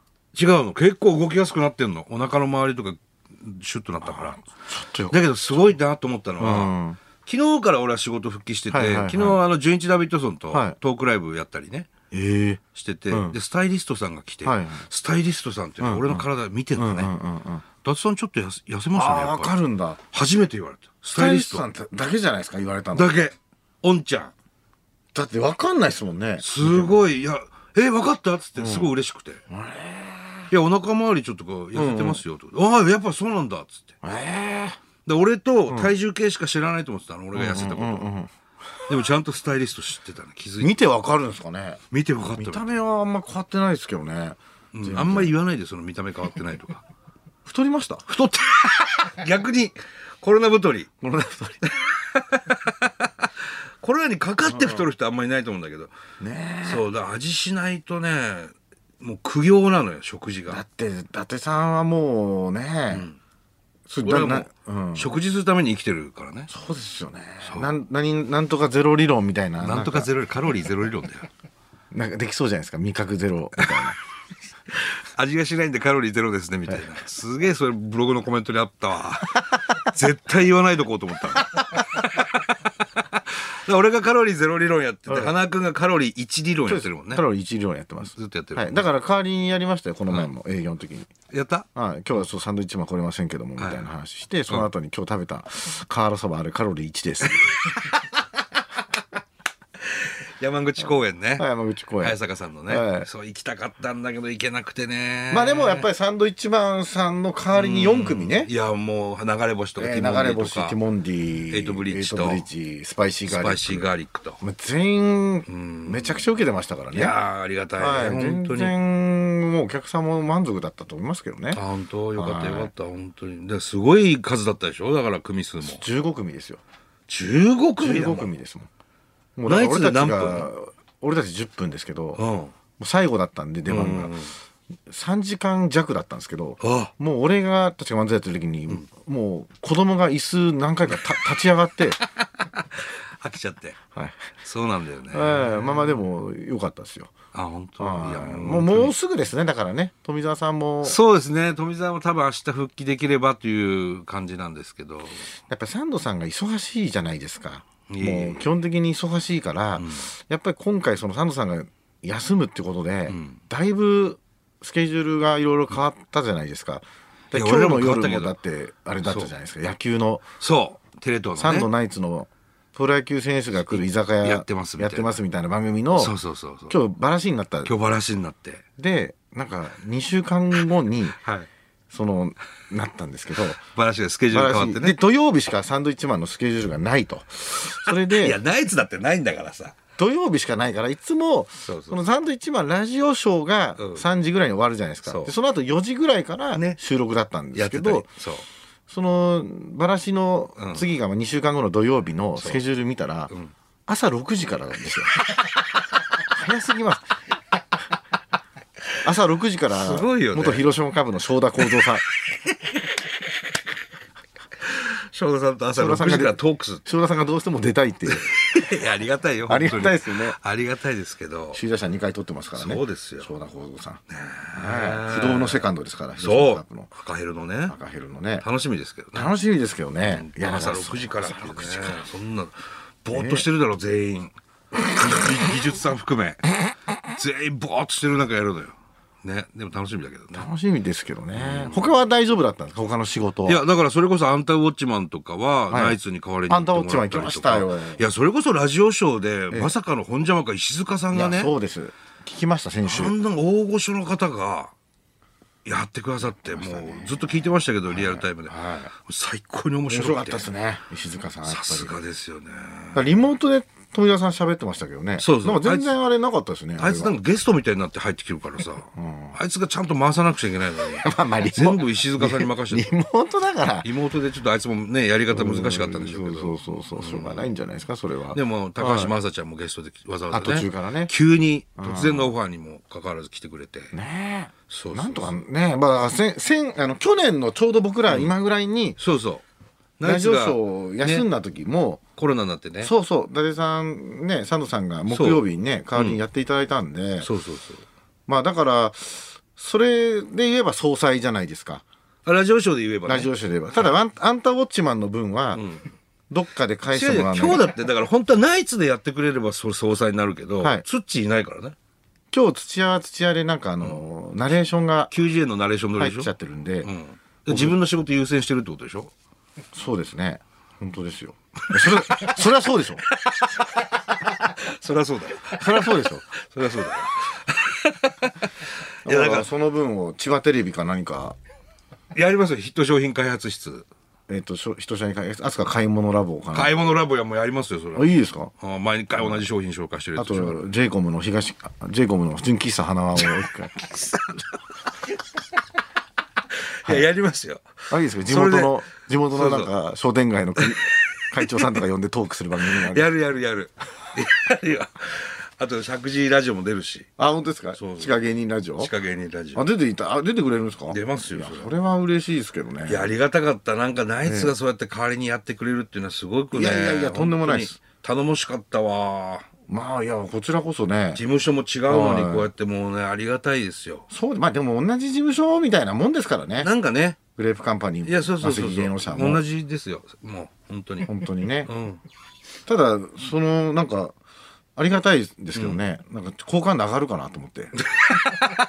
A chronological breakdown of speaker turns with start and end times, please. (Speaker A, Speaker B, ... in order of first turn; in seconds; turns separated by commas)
Speaker A: 0.3-4.4, Speaker B: 4.0-5.2, Speaker A: 5.1-11.9, Speaker B: 6.4-7.0, Speaker B: 8.7-9.4, Speaker B: 10.5-10.8, Speaker B: 12.1-13.4, Speaker A: 12.7-17.1, Speaker B: 14.4-14.9, Speaker B: 15.8-17.6, Speaker A: 17.8-19.6, Speaker B: 18.9-20.0, Speaker A: 20.1-21.7, Speaker B: 21.1-23.1, Speaker A: 22.9-24.3, Speaker B: 25.1-27.0, Speaker A: 26.4-29.4, Speaker B: 28.6-28.9, Speaker B: 29.5-30.5, Speaker A: 30.5-33.9, Speaker B: 31.7-32.2, Speaker B: 34.0-34.8, Speaker A: 35.0-38.1, Speaker B: 35.7-35.9, Speaker B: 37.3-38.3, Speaker A: 38.9-40.7, Speaker B: 40.6-41.8, Speaker A: 41.9-42.7, Speaker B: 42.4-45.3, Speaker A: 44.7-46.8, Speaker B: 47.4-48.0, Speaker A: 48.1-50.9, Speaker B: 51.0-51.7, Speaker A: 51.6-55.9, Speaker B: 54.4-54.9, Speaker B: 56.2-56.8, Speaker A: 56.6-60.6, Speaker B: 60.5-63.1, Speaker A: 62.9-63.2, Speaker B: 63.9-65.1, Speaker A: 64.0-66.5, Speaker B: 66.5-70.1, Speaker A: 67.4-67.8, Speaker A: 69.6-71.3, Speaker B: 71.9-74.0, Speaker A: 74.8-87.2, Speaker B: 85.1-85.3, Speaker B: 86.7-91.1, Speaker A: 88.1-88.8, Speaker A: 91.3-91.7, Speaker B: 91.7-97.5, Speaker A: 93.6-93.9, Speaker A: 99.9-101.5, Speaker B: 101.4-102.2, Speaker A: 102.0-105.9, Speaker B: 102.7-103.1, Speaker B: 105.3-108.5, Speaker A: 107.5-110.8, Speaker B: 109.8-113.9, Speaker A: 111.5-112.4, Speaker A: 113.3-114.4, Speaker B: 114.4-117.1, Speaker A: 115.5-116.2, Speaker A: 116.9-118.7, Speaker B: 117.8-121.6, Speaker A: 121.5-125.8, Speaker B: 122.2-122.7, Speaker B: 125.6-126.6, Speaker A: 127.1-128.3, Speaker B: 127.8-128.7, Speaker B: 129.4-132.2, Speaker A: 129.5-130.5, Speaker A: 132.2-132.5, Speaker B: 132.8-134.2, Speaker A: 133.7-134.3, Speaker B: 134.9-142.0, Speaker A: 136.6-136.9, Speaker A: 142.2-143.8, Speaker B: 143.9-144.3, Speaker A: 144.4-146.0, Speaker B: 145.1-147.1, Speaker A: 147.3-148.9, Speaker B: 147.8-151.0, Speaker A: 150.8-155.3, Speaker B: 155.5-170.2, Speaker A: 157.9-158.4, Speaker A: 159.8-160.1, Speaker A: 163.1-163.4, Speaker A: 167.3-168.3, Speaker A: 169.0-169.3, Speaker A: 170.4-171.7, Speaker B: 171.4-176.1, Speaker A: 173.7-175.2, Speaker A: 175.9-176.8, Speaker B: 176.7-177.7, Speaker A: 177.6-178.6, Speaker B: 178.8-181.2, Speaker A: 181.2-181.5, Speaker B: 181.9-183.6, Speaker A: 183.7-185.0, Speaker B: 184.3-188.4, Speaker A: 187.8-189.7, Speaker B: 190.0-198.1, Speaker A: 191.6-192.0, Speaker A: 193.8-194.1, Speaker A: 195.1-195.3, Speaker A: 197.5-198.4, Speaker B: 198.9-203.3, Speaker A: 200.6-200.9, Speaker B: 203.9-205.2, Speaker B: 206.3-207.1, Speaker B: 209.0-212.0, Speaker A: 209.7-210.7, Speaker A: 214.7-216.8, Speaker B: 215.7-218.6, Speaker A: 218.1-221.6, Speaker B: 219.5-220.4, Speaker B: 221.5-224.0, Speaker A: 222.6-223.3, Speaker A: 224.1-227.8, Speaker B: 224.5-226.9, Speaker B: 227.7-228.4, Speaker A: 228.4-229.3, Speaker B: 229.1-232.0, Speaker A: 230.0-236.5, Speaker B: 233.1-233.4, Speaker A: 237.1-240.4, Speaker B: 240.3-243.6, Speaker A: 241.3-241.9, Speaker A: 243.4-251.5, Speaker B: 245.7-248.0, Speaker B: 251.1-253.1, Speaker A: 252.8-254.7, Speaker A: 255.6-260.5, Speaker B: 256.2-258.9, Speaker B: 259.9-261.9, Speaker A: 261.4-263.2, Speaker B: 262.9-267.1, Speaker A: 265.2-266.0, Speaker A: 266.8-272.9, Speaker B: 268.9-269.4, Speaker B: 270.9-273.9, Speaker A: 273.8-277.5, Speaker B: 275.3-279.1, Speaker A: 278.3-283.9, Speaker B: 280.3-281.1, Speaker B: 281.8-282.3, Speaker B: 283.9-289.0, Speaker A: 284.7-285.3, Speaker A: 288.1-288.3, Speaker A: 289.0-289.4, Speaker A: 290.0-291.3, Speaker B: 290.0-292.0, Speaker A: 292.2-292.9, Speaker B: 292.8-297.3, Speaker A: 295.1-295.4, Speaker A: 297.2-297.8, Speaker B: 298.3-301.8, Speaker A: 302.2-303.3, Speaker B: 303.1-305.6, Speaker A: 305.5-305.9, Speaker B: 306.3-307.7, Speaker A: 306.9-311.8, Speaker B: 312.3-315.1, Speaker A: 315.1-319.1, Speaker B: 316.0-316.9, Speaker B: 317.5-317.8, Speaker B: 319.7-323.0, Speaker A: 321.8-322.4, Speaker A: 323.1-329.5, Speaker B: 325.5-326.3, Speaker B: 329.0-331.4, Speaker A: 332.1-333.9, Speaker B: 334.3-336.7, Speaker A: 336.5-340.6, Speaker B: 337.9-338.5, Speaker B: 340.1-344.4, Speaker A: 346.5-349.7, Speaker B: 347.9-353.1, Speaker A: 351.1-351.7, Speaker A: 352.6-357.1, Speaker B: 357.2-358.9, Speaker A: 357.8-358.1, Speaker A: 358.8-359.7, Speaker B: 359.5-363.1, Speaker A: 360.9-361.7, Speaker A: 362.9-369.5, Speaker B: 364.2-364.5, Speaker B: 366.5-367.8, Speaker B: 369.7-371.2, Speaker A: 371.1-374.1, Speaker B: 371.9-372.5, Speaker B: 374.1-376.7, Speaker A: 376.6-377.2, Speaker B: 377.4-379.4, Speaker A: 378.0-382.0, Speaker B: 381.1-381.7, Speaker B: 382.6-384.1, Speaker B: 384.8-387.8